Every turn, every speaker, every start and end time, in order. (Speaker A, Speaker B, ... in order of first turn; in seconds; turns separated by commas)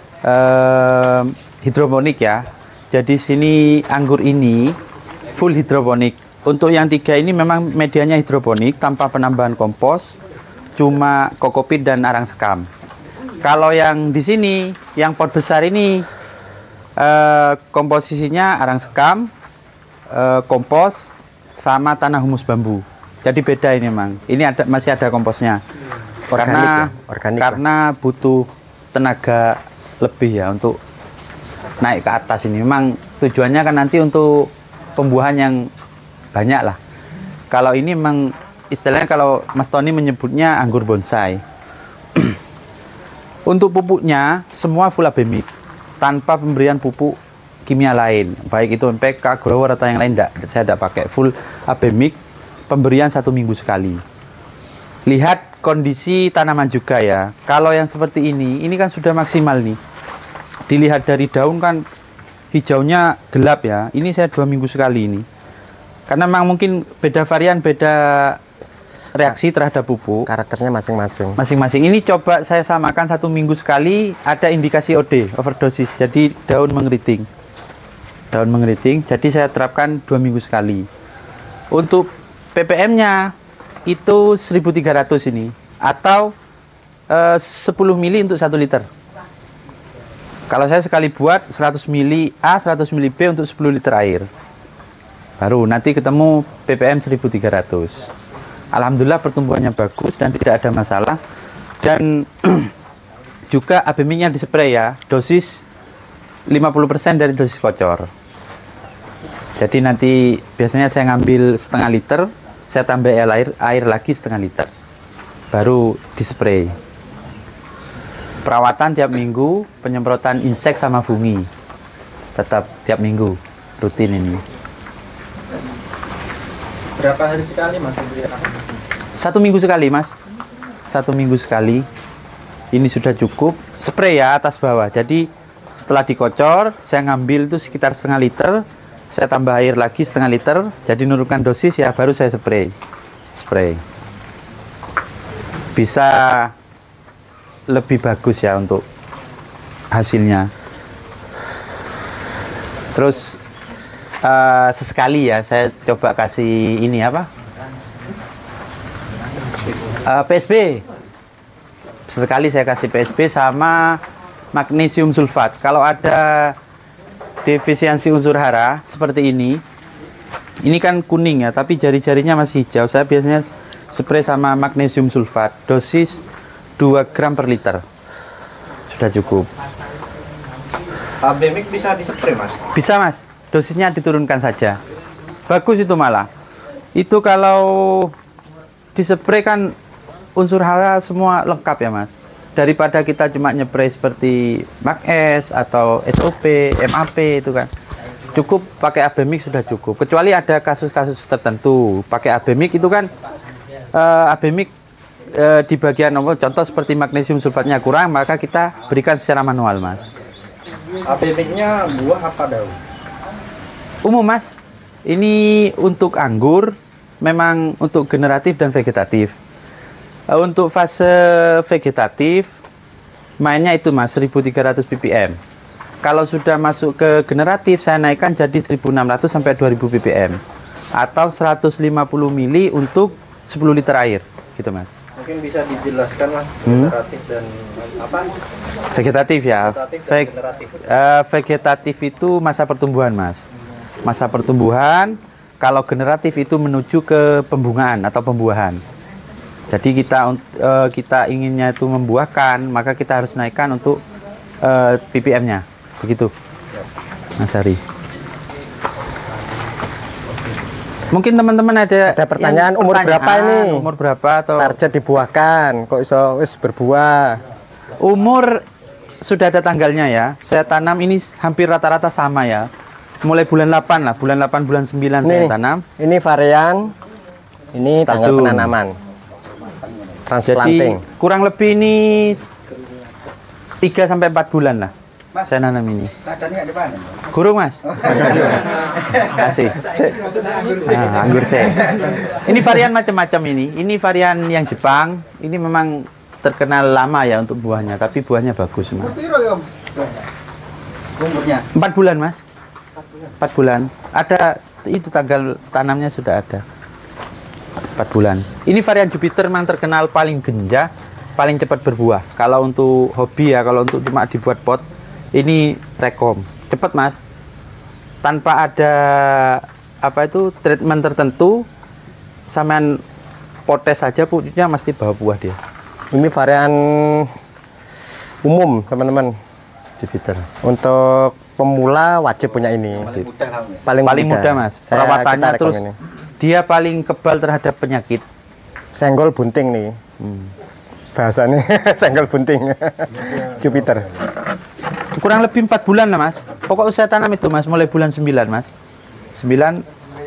Speaker A: 0.2-4.8, Speaker A: 5.3-10.2, Speaker A: 10.8-12.7, Speaker A: 13.4-16.1, Speaker A: 17.0-19.3, Speaker A: 20.1-25.6, Speaker B: 26.3-27.6, Speaker A: 26.4-30.8, Speaker A: 31.8-35.7, Speaker A: 36.3-36.8, Speaker A: 37.5-41.4, Speaker A: 43.5-45.5, Speaker A: 46.0-52.2, Speaker A: 52.7-54.0, Speaker A: 55.1-59.8, Speaker A: 60.7-61.8, Speaker A: 62.5-65.2, Speaker A: 66.1-68.4, Speaker A: 69.1-70.3, Speaker B: 70.3-71.4, Speaker A: 71.4-77.3, Speaker A: 78.3-80.9, Speaker A: 81.7-83.3, Speaker A: 83.9-86.3, Speaker A: 87.1-88.9, Speaker A: 90.5-94.3, Speaker A: 95.4-98.1, Speaker A: 98.7-101.2, Speaker A: 101.8-102.7, Speaker A: 103.5-105.6, Speaker A: 106.5-108.1, Speaker A: 109.6-114.7, Speaker A: 115.5-116.7, Speaker A: 118.5-121.5, Speaker A: 122.3-124.4, Speaker C: 127.0-128.3, Speaker A: 129.2-130.1, Speaker A: 130.9-131.8, Speaker A: 132.7-142.7, Speaker A: 143.3-143.8, Speaker A: 145.7-146.5, Speaker A: 147.7-148.8, Speaker A: 149.9-150.5, Speaker A: 152.9-153.4, Speaker A: 154.2-157.3, Speaker A: 160.0-160.8, Speaker A: 162.1-164.0, Speaker A: 164.5-166.6, Speaker A: 167.4-169.6, Speaker A: 170.6-176.2, Speaker A: 176.8-177.8, Speaker A: 178.9-179.5, Speaker C: 181.2-182.6, Speaker A: 182.7-184.8, Speaker A: 185.5-186.3, Speaker A: 186.9-188.1, Speaker A: 188.9-189.7, Speaker A: 190.3-197.7, Speaker A: 198.3-203.1, Speaker A: 203.9-204.7, Speaker A: 205.3-210.0, Speaker C: 211.1-212.8, Speaker A: 214.0-219.3, Speaker A: 220.3-222.5, Speaker A: 223.4-225.4, Speaker A: 226.0-230.4, Speaker A: 231.0-234.9, Speaker C: 235.2-237.2, Speaker A: 236.6-236.9, Speaker C: 237.8-238.0, Speaker A: 238.9-243.5, Speaker C: 239.9-240.6, Speaker A: 244.0-248.8, Speaker A: 249.7-254.0, Speaker A: 254.6-256.3, Speaker A: 257.4-257.8, Speaker A: 261.1-264.8, Speaker B: 262.1-263.9, Speaker B: 264.6-267.4, Speaker A: 268.0-268.6, Speaker A: 269.2-272.7, Speaker A: 273.2-275.8, Speaker B: 275.2-276.9, Speaker B: 277.7-278.9, Speaker A: 278.1-278.7, Speaker B: 280.3-281.0, Speaker A: 280.4-282.4, Speaker A: 283.8-286.1, Speaker A: 287.3-289.9, Speaker B: 288.2-288.5, Speaker A: 290.8-299.4, Speaker A: 301.4-302.4, Speaker A: 303.4-306.6, Speaker A: 307.9-314.8, Speaker A: 315.3-317.2, Speaker A: 318.2-321.6, Speaker A: 322.5-323.0, Speaker A: 323.7-325.6, Speaker B: 326.1-327.3, Speaker B: 328.4-329.3, Speaker A: 330.0-330.4, Speaker B: 330.6-333.1, Speaker B: 333.7-335.9, Speaker A: 334.0-335.8, Speaker A: 336.4-338.2, Speaker B: 338.9-339.9, Speaker B: 341.1-344.1, Speaker A: 345.1-348.7, Speaker A: 349.3-349.8